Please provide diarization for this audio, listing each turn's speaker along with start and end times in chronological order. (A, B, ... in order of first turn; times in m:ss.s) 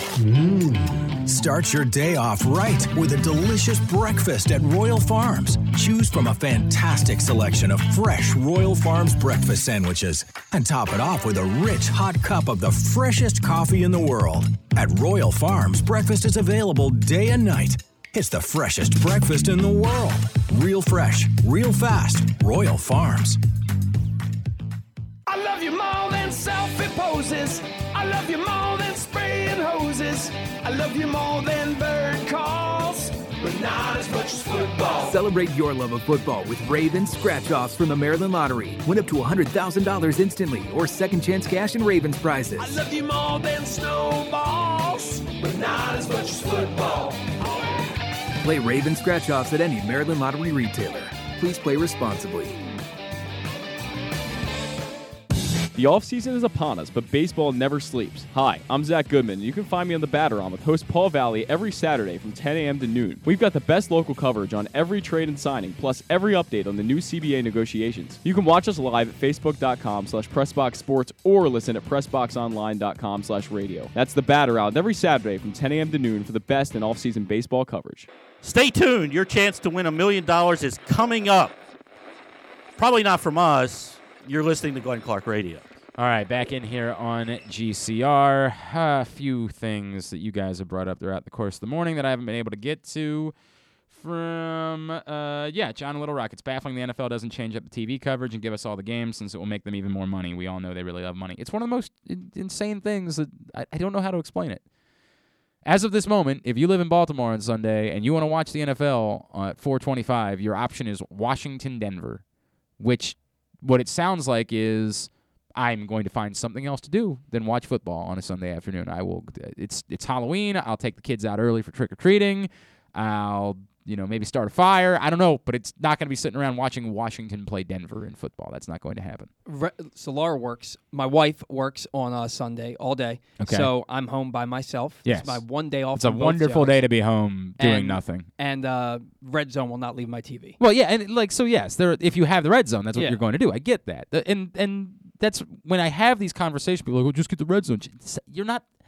0:00.2-0:23.4 A
0:25.3-0:35.2 B
0:35.0-0:42.8 C
0:42.6-0:47.9 B
0:48.4-0:52.6 C
0:55.8-1:18.1 D
1:18.4-1:21.6 E
1:22.8-1:25.7 E
1:26.0-1:33.4 F
1:33.9-1:44.6 F
1:45.6-1:52.2 F
1:52.8-2:09.3 F
2:09.5-2:16.8 G
2:13.4-2:13.7 F
2:15.0-2:18.3 F
2:17.6-2:20.6 G
2:20.6-2:28.7 F
2:22.9-2:23.2 G